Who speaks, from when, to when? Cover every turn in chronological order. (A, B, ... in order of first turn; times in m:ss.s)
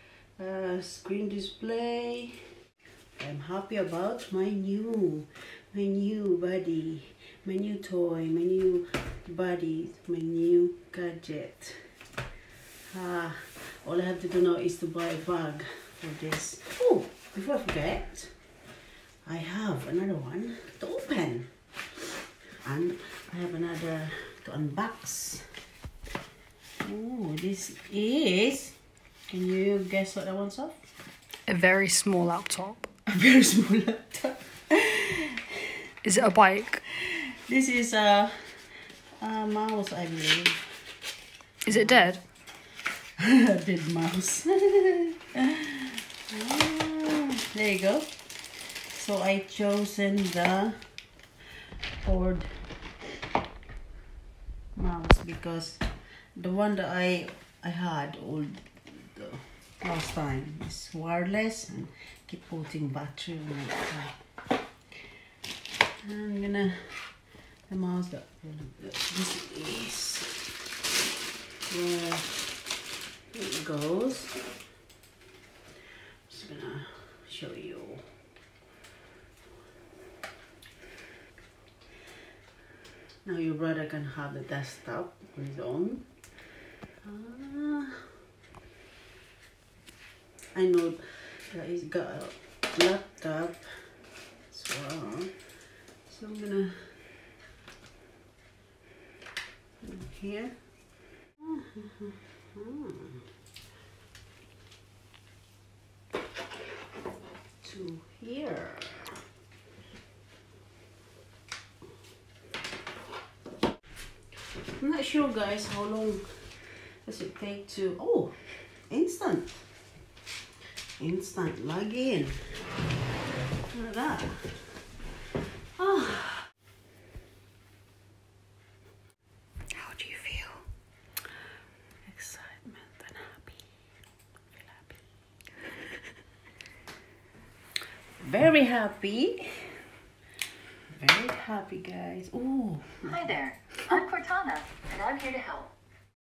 0:00.4-0:02.4 A
0:03.2-0:11.8 A
0:12.9-0:18.3 A
0:19.2-0:21.5 A
0:22.6-0:25.4 A
0:26.8-0:28.8 A
0:29.3-0:30.8 A
0:31.5-0:32.9 B
0:33.1-0:35.4 A
0:36.0-0:36.8 B
0:37.0-0:38.3 A
0:39.2-0:40.6 A
0:41.7-0:42.2 B
0:41.7-0:42.2 A
0:43.2-0:48.1 A
0:48.9-0:50.8 A
0:52.0-0:52.5 A
0:54.8-0:55.8 A
0:56.4-1:04.2 A
1:06.0-1:06.9 A
1:07.7-1:10.3 A
1:11.7-1:12.3 A
1:13.3-1:14.4 A
1:16.3-1:18.0 A
1:23.2-1:26.1 A
1:27.0-1:28.0 A
1:30.5-1:33.7 A
1:34.5-1:35.3 A
1:36.1-1:36.8 A
1:39.8-1:40.5 A
1:41.4-1:43.2 A
1:47.6-1:49.2 A
1:54.8-1:56.3 A
1:57.0-1:58.4 A
1:58.9-1:59.6 A
2:01.0-2:02.4 A
2:03.7-2:04.6 A
2:05.8-2:06.5 A
2:09.8-2:10.6 B
2:12.1-2:13.6 A
2:14.5-2:15.0 A
2:18.2-2:19.5 A
2:20.9-2:23.4 A
2:23.0-2:25.7 C